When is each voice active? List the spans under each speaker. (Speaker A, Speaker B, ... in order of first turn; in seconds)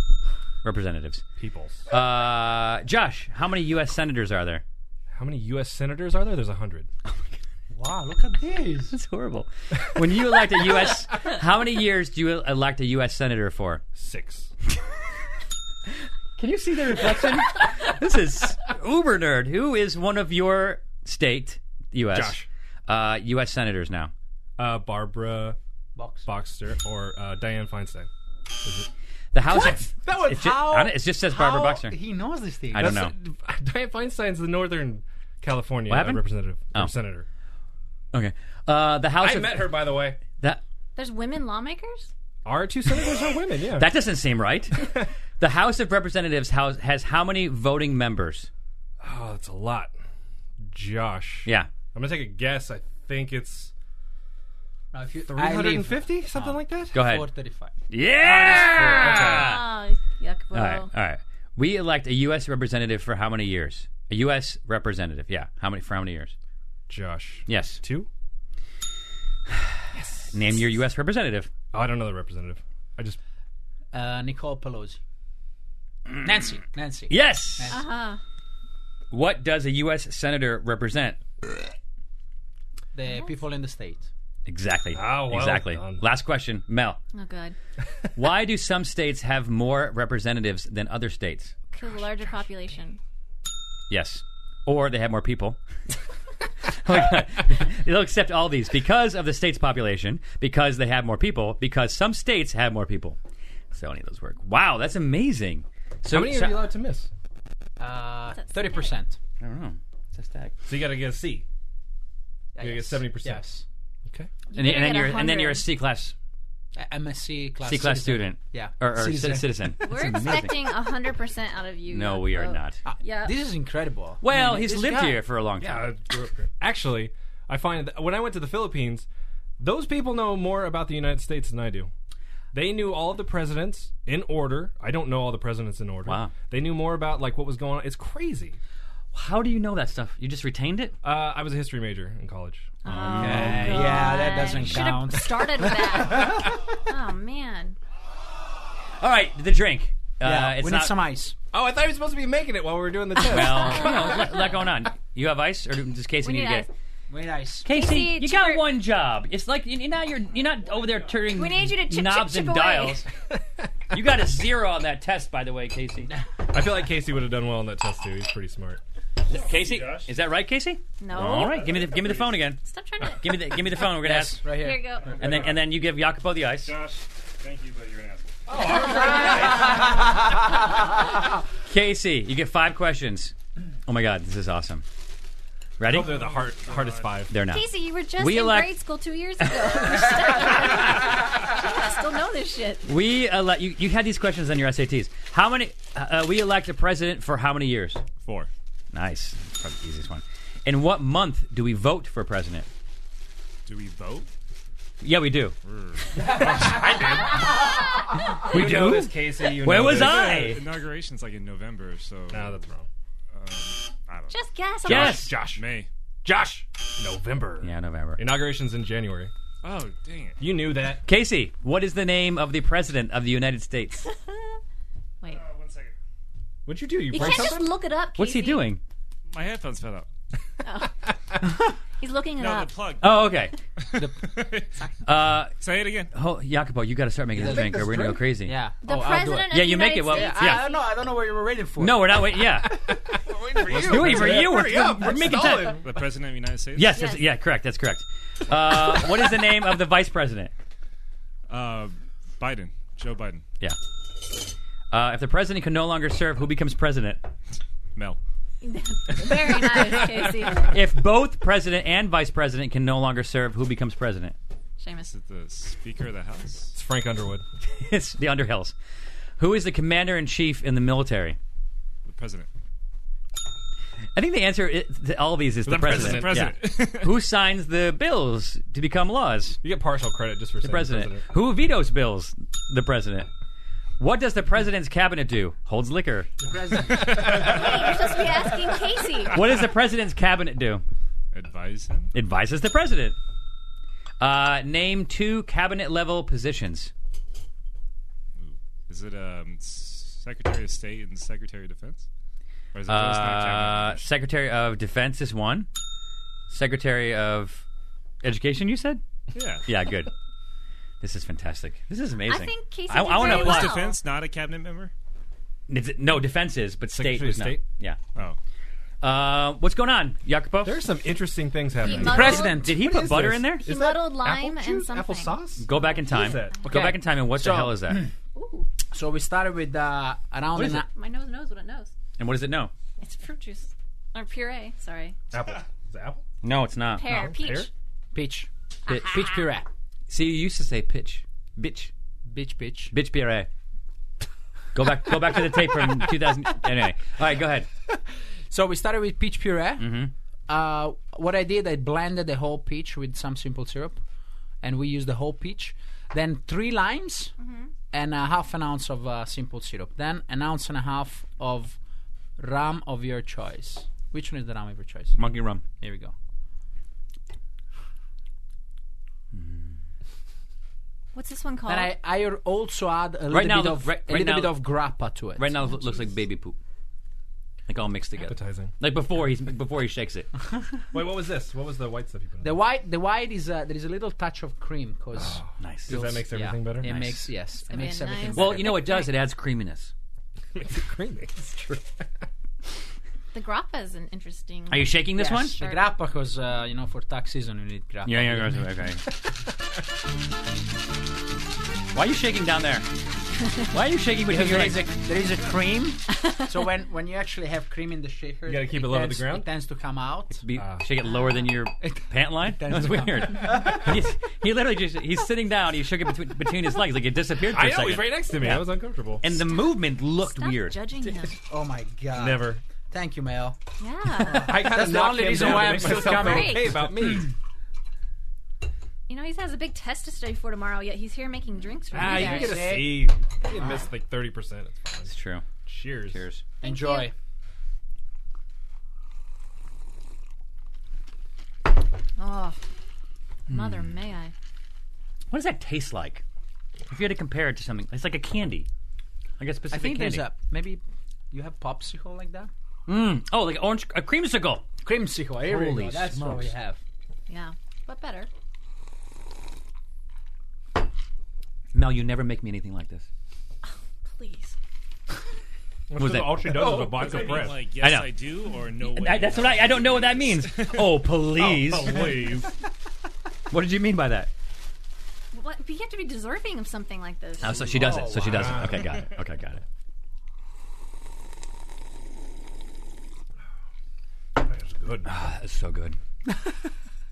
Speaker A: 0.6-1.2, 1.9-4.6, 8.9-13.8, 16.4-24.1, 29.3-32.0, 32.7-33.1, 35.9-36.9, 38.1-40.6, 43.8-48.5, 56.9-57.3, 57.9-59.6, 60.5-66.3, 67.5-67.8, 69.5-71.5, 77.1-77.8, 79.1-81.2, 84.5-87.0, 88.2-91.5, 93.9-95.6, 96.8-103.2, 103.7-106.7, 109.4-110.5, 114.5-116.1, 117.6-120.7, 121.9-122.8, 124.2-125.9, 136.1-136.3, 139.1-140.9, 142.9-144.8, 149.0-150.9, 153.2-156.7, 157.7-163.1, 163.9-166.1, 169.3-174.4, 175.2-176.7, 181.7-183.3, 183.9-184.8, 185.8-186.3, 187.3-188.8, 189.5-190.7, 192.9-198.0, 198.9-202.7, 205.0-205.6, 208.4-210.6, 214.8-215.4, 217.6-218.2, 221.1-224.1, 228.2-228.8, 233.0-233.6, 235.1-235.6, 236.1-238.6, 239.5-240.7, 241.8-242.7, 243.7-245.8, 246.8-250.5, 254.9-257.3, 260.7-264.4, 267.8-268.7, 269.4-271.4, 274.1-279.6, 280.6-283.3, 284.0-286.3, 289.3-290.8, 292.1-293.2, 294.2-296.9, 302.9-305.7, 306.5-307.6, 308.2-309.0, 309.7-310.1, 311.0-313.8, 315.7-318.0, 319.0-320.9, 322.4-323.7, 325.6-328.0, 330.5-330.8, 332.2-332.7, 336.4-337.2, 338.9-339.2, 340.1-341.9, 342.9-343.5, 344.7-347.7, 349.8-350.1, 365.1-365.6, 369.3-369.7, 373.3-374.6, 375.4-376.6, 377.7-380.3, 385.6-386.2, 386.8-387.3, 388.3-389.9, 394.7-395.6, 398.1-399.0, 401.9-402.9, 403.7-404.9, 410.4-421.2, 435.1-435.4, 436.1-436.4, 443.5-443.9, 445.3-446.2, 446.9-448.7, 449.4-450.3, 452.9-454.7, 455.4-456.5, 461.7-463.1, 466.0-466.8, 467.8-468.1, 468.9-472.4, 473.5-474.3, 477.4-479.6, 485.1-486.0
Speaker B: 1.4-1.9, 5.1-6.9, 13.9-14.5, 22.1-22.5, 24.6-25.6, 26.2-28.1, 28.6-28.9, 32.8-37.3, 39.2-40.2, 42.5-43.9, 49.0-49.9, 50.6-53.7, 55.3-57.1, 58.2-59.6, 66.9-68.1, 70.0-70.3, 71.7-73.2, 84.9-86.0, 106.0-107.1, 110.7-111.5, 112.6-113.5, 125.6-129.1, 129.6-131.9, 132.5-138.6, 141.0-144.2, 145.0-146.6, 151.5-154.6, 166.5-168.8, 178.5-180.3, 185.9-187.4, 206.2-210.6, 212.3-212.9, 214.8-215.7, 216.2-219.3, 220.4-221.0, 226.7-227.8, 242.4-246.1, 266.7-267.4, 275.7-276.7, 279.6-281.3, 286.9-288.1, 316.9-317.6, 320.6-326.7, 335.3-336.2, 337.0-337.7, 378.2-378.7, 380.9-382.6, 385.1-387.1, 390.6-391.8, 408.5-409.5, 410.5-410.9, 417.4-419.3, 422.1-422.6, 424.3-427.3, 431.9-436.2, 465.9-467.7, 471.3-472.5, 477.8-479.1, 484.4-485.1
Speaker C: 7.7-8.9, 26.0-26.3, 29.5-33.0, 54.9-57.7, 73.9-75.0, 76.2-77.9, 82.9-84.1, 107.8-109.2, 112.5-113.6, 116.8-119.8, 122.8-125.2, 143.2-145.7, 150.2-151.4, 157.1-157.7, 173.9-175.5, 233.9-234.9, 237.3-242.2, 286.4-287.6, 322.0-323.1, 326.7-328.1, 328.9-330.9, 338.1-339.7, 342.3-342.9, 348.5-349.9, 350.5-354.0, 354.6-357.3, 357.9-361.8, 362.4-365.2, 365.8-366.1, 371.7-375.5, 382.4-389.0, 395.2-398.6, 404.3-410.4, 411.8-414.0, 421.5-423.6, 424.3-427.1, 432.0-433.1, 436.6-437.1, 449.7-452.5, 454.8-456.8, 477.6-478.6
Speaker D: 41.0-42.1, 59.2-60.9, 77.7-78.2, 83.0-83.4, 87.1-87.6, 91.7-93.0, 108.4-108.9, 114.5-115.7, 119.8-123.4, 142.8-147.8, 153.2-154.3, 156.2-156.7, 157.7-158.7, 161.3-163.0, 171.0-171.7, 172.6-173.4, 174.5-175.2, 178.6-179.6, 187.5-192.9, 214.3-215.4, 227.1-228.7, 230.6-230.9, 232.0-232.9, 238.8-241.0, 246.9-247.3, 258.6-260.8, 264.8-265.1, 287.3-289.4, 312.3-314.0, 321.8-322.6, 323.6-326.7, 328.4-328.7, 330.9-331.9, 333.0-335.2, 337.0-337.7, 338.9-339.2, 357.4-357.7, 371.1-371.9, 375.6-376.1, 387.6-389.1, 393.3-395.1, 395.6-395.8, 411.1-411.4, 420.2-421.4, 423.8-424.7, 425.9-426.7, 429.1-432.7, 436.6-437.1, 442.2-442.6, 443.5-444.3, 457.3-458.3, 463.7-464.6, 475.3-477.8
Speaker E: 169.3-170.1, 171.2-172.4, 175.1-175.6, 176.6-178.5, 186.0-187.3, 198.2-198.5, 203.7-204.3, 205.7-206.9, 209.8-212.7, 213.3-215.9, 219.6-220.4, 225.3-225.9, 229.3-230.1, 232.4-234.8, 235.6-236.1, 243.3-244.5, 245.8-247.1, 251.5-253.4, 265.1-266.7, 272.1-272.5, 275.7-277.1, 287.1-287.8, 289.3-289.6, 291.3-292.1, 298.4-302.1, 302.7-304.0, 309.3-309.7, 313.1-314.9, 466.6-471.1